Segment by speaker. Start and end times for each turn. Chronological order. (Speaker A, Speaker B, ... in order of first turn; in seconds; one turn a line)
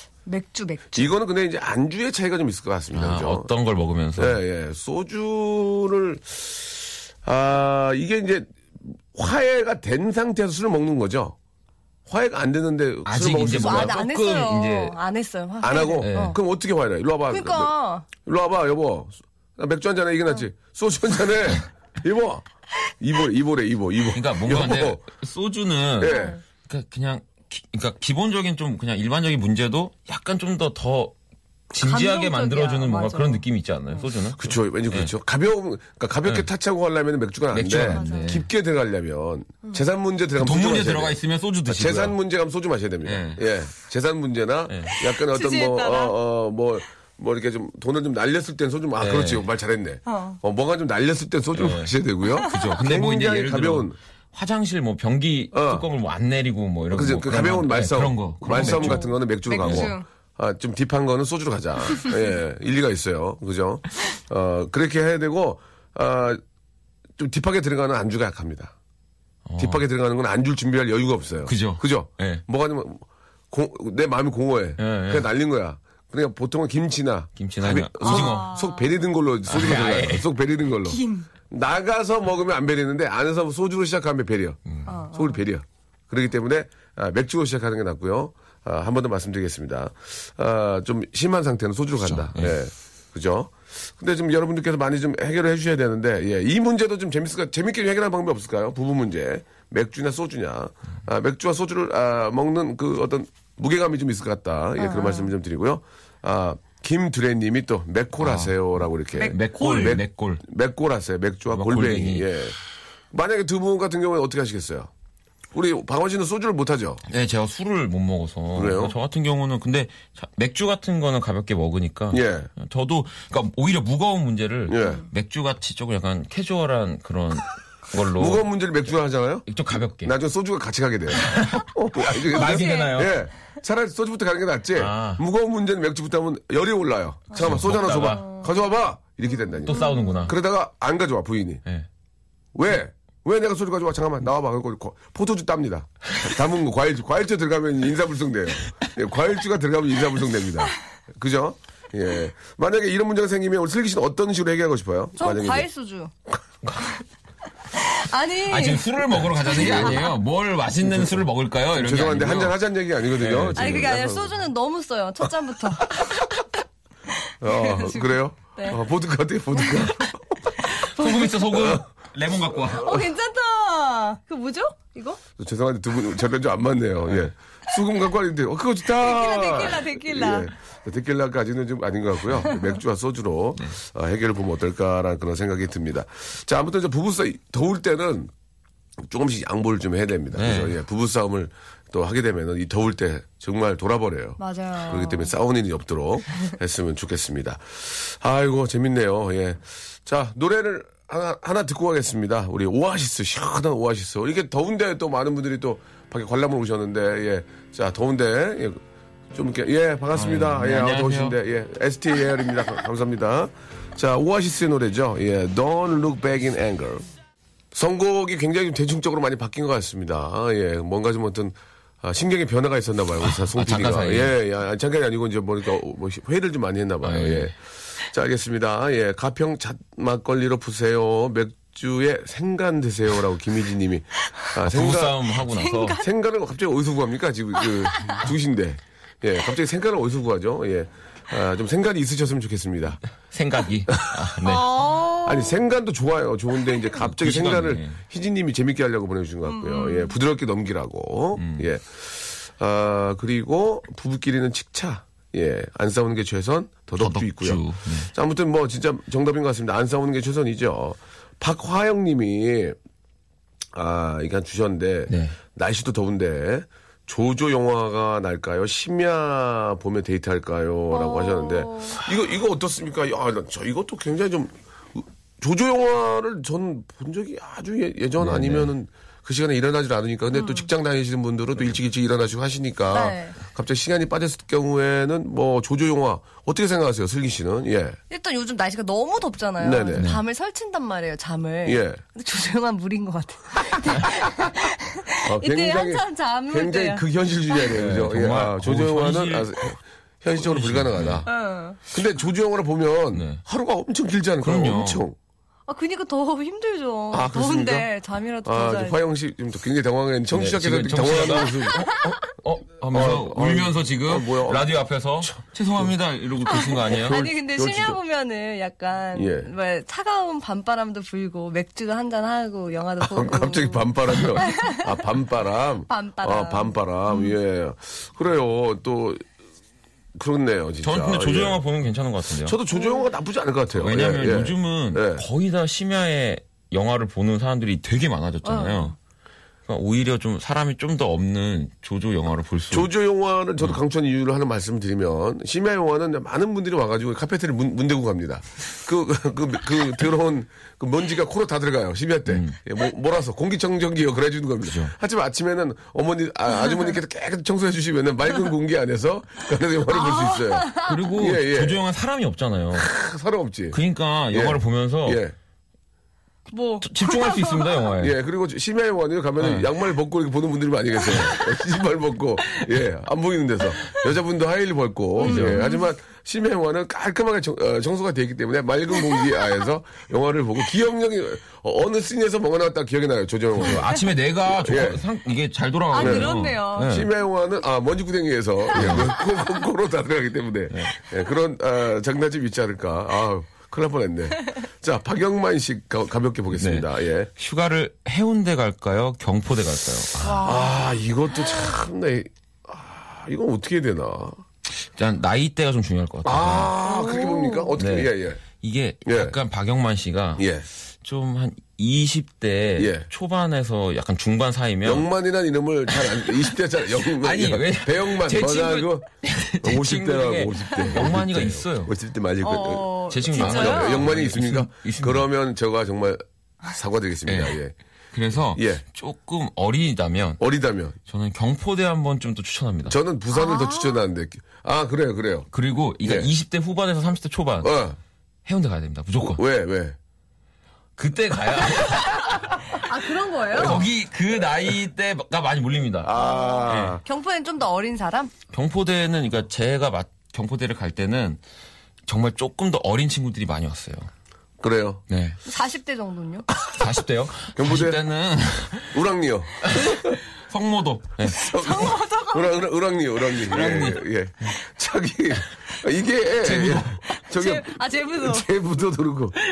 Speaker A: 0.3-1.1
Speaker B: 0.9-3.5
Speaker C: 2.9-4.4
Speaker B: 4.2-8.5
Speaker B: 9.1-11.4
Speaker B: 12.1-14.0
Speaker C: 13.1-15.0
Speaker A: 13.5-16.4
Speaker B: 15.6-22.4
Speaker C: 16.0-16.4
Speaker A: 17.3-18.1
Speaker B: 23.0-25.1
Speaker C: 24.1-31.1
Speaker B: 26.0-26.4
Speaker A: 26.0-26.4
Speaker C: 31.7-35.1
Speaker A: 31.7-34.0
Speaker B: 34.4-54.0
Speaker C: 37.5-38.5
Speaker A: 37.8-38.4
Speaker C: 40.4-42.2
Speaker C: 43.0-43.5
Speaker C: 44.7-45.0
Speaker A: 45.3-46.2
Speaker C: 49.0-49.5
Speaker A: 50.1-50.4
Speaker C: 51.5-59.9
Speaker B: 55.5-55.9
Speaker B: 56.9-66.4
Speaker A: 58.6-60.0
Speaker B: 67.2-68.7
Speaker C: 69.5-69.8
Speaker B: 69.6-112.6
Speaker C: 71.5-72.4
Speaker C: 74.8-75.3
Speaker C: 77.4-78.6
Speaker A: 78.0-78.9
Speaker C: 79.5-80.3
Speaker A: 80.9-81.3
Speaker A: 84.9-85.4
Speaker C: 92.0-92.6
Speaker A: 104.8-105.3
Speaker C: 108.2-108.6
Speaker A: 109.2-110.0
Speaker C: 109.2-110.4
Speaker C: 111.5-112.3
Speaker B: 113.1-114.9
Speaker B: 115.5-117.0
Speaker C: 117.1-128.5
Speaker B: 118.5-119.0
Speaker B: 122.1-122.5
Speaker B: 124.7-125.0
Speaker B: 128.2-129.5
Speaker C: 129.5-130.2
Speaker B: 130.0-141.6
Speaker C: 131.2-133.2
Speaker A: 132.3-133.0
Speaker C: 134.8-135.2
Speaker C: 137.3-138.3
Speaker A: 138.1-138.4
Speaker C: 139.7-140.4
Speaker A: 139.7-140.2
Speaker B: 142.6-155.7
Speaker A: 155.2-156.1
Speaker A: 157.9-158.8
Speaker C: 158.5-162.6
Speaker B: 159.4-160.1
Speaker A: 159.6-160.1
Speaker B: 160.8-161.2
Speaker B: 161.8-164.4
Speaker C: 163.2-164.0
Speaker A: 163.6-166.5
Speaker A: 167.2-168.8
Speaker B: 167.4-170.6
Speaker A: 169.6-170.1
Speaker A: 170.6-171.4
Speaker C: 170.8-173.0
Speaker B: 171.5-171.8
Speaker A: 172.8-175.2
Speaker B: 172.8-173.0
Speaker B: 175.4-188.3
Speaker A: 178.9-180.5
Speaker B: 189.0-208.8
Speaker C: 190.3-190.8
Speaker A: 194.4-195.3
Speaker B: 209.3-217.0
Speaker C: 210.2-211.4
Speaker B: 217.7-235.2
Speaker C: 223.3-224.3
Speaker C: 227.0-227.5
Speaker C: 234.6-236.0
Speaker A: 235.4-236.1
Speaker B: 236.0-243.0
Speaker A: 237.9-238.2
Speaker C: 243.3-244.9
Speaker A: 244.4-245.6
Speaker B: 245.2-262.8
Speaker C: 247.0-248.0
Speaker A: 249.5-250.2
Speaker C: 251.4-251.7
Speaker C: 257.0-258.1
Speaker B: 263.7-288.0
Speaker C: 265.1-265.4
Speaker A: 270.9-272.0
Speaker C: 278.2-278.7
Speaker A: 280.3-280.7
Speaker A: 282.9-283.4
Speaker A: 288.1-297.1
Speaker B: 289.6-290.1
Speaker C: 290.0-290.2
Speaker B: 291.6-292.0
Speaker B: 295.2-301.3
Speaker C: 297.7-299.5
Speaker C: 300.4-301.3
Speaker A: 301.3-301.8
Speaker B: 301.9-305.2
Speaker C: 303.1-303.4
Speaker C: 304.4-305.0
Speaker A: 305.7-309.0
Speaker B: 307.1-307.9
Speaker B: 308.4-311.9
Speaker C: 310.3-317.3
Speaker B: 312.8-315.9
Speaker A: 316.5-324.9
Speaker B: 317.1-318.0
Speaker B: 319.1-319.5
Speaker B: 323.0-329.2
Speaker A: 325.9-327.4
Speaker B: 330.2-331.6
Speaker C: 330.8-332.6
Speaker B: 332.4-335.2
Speaker A: 332.7-333.0
Speaker C: 333.8-338.9
Speaker A: 338.4-338.9
Speaker C: 339.7-342.9
Speaker B: 342.7-361.8
Speaker C: 352.3-352.6
Speaker C: 354.6-354.9
Speaker A: 356.6-356.9
Speaker A: 359.9-360.9
Speaker C: 360.8-362.9
Speaker B: 362.7-363.8
Speaker C: 363.7-365.2
Speaker B: 364.3-365.4
Speaker A: 366.5-367.9
Speaker C: 366.8-368.2
Speaker B: 368.0-385.1
Speaker C: 369.4-369.7
Speaker A: 375.2-375.9
Speaker C: 375.2-375.6
Speaker C: 383.6-387.1
Speaker A: 385.9-387.0
Speaker B: 385.9-397.3
Speaker C: 388.7-389.1
Speaker C: 390.7-391.0
Speaker C: 396.6-400.5
Speaker A: 400.2-400.8
Speaker B: 400.4-404.4
Speaker C: 404.8-406.7
Speaker B: 406.2-408.4
Speaker A: 406.8-407.7
Speaker C: 407.8-410.5
Speaker B: 409.1-409.4
Speaker B: 410.4-410.7
Speaker C: 411.0-415.1
Speaker B: 412.8-413.1
Speaker B: 414.8-419.1
Speaker C: 415.9-416.4
Speaker C: 417.1-421.9
Speaker B: 419.6-427.7
Speaker A: 422.4-424.1
Speaker C: 423.1-425.3
Speaker C: 427.3-427.6
Speaker C: 428.1-430.4
Speaker B: 428.5-428.8
Speaker B: 430.4-431.0
Speaker C: 431.1-433.0
Speaker B: 432.9-435.5
Speaker A: 433.3-434.1
Speaker C: 435.5-437.9
Speaker B: 436.0-436.3
Speaker B: 437.6-438.0
Speaker C: 438.5-439.4
Speaker B: 439.2-440.0
Speaker C: 441.0-442.7
Speaker A: 442.6-443.8
Speaker B: 443.5-443.9
Speaker C: 443.6-447.0
Speaker B: 446.0-447.0
Speaker A: 446.1-448.3
Speaker C: 448.5-451.4
Speaker C: 452.1-454.1
Speaker B: 454.6-455.0
Speaker C: 455.1-455.4
Speaker A: 455.4-456.5
Speaker C: 456.6-459.0
Speaker B: 457.6-458.0
Speaker B: 458.9-460.2
Speaker C: 459.6-461.8
Speaker B: 461.2-469.4
Speaker A: 461.5-462.6
Speaker C: 463.5-464.1
Speaker C: 466.4-467.0
Speaker A: 467.1-468.5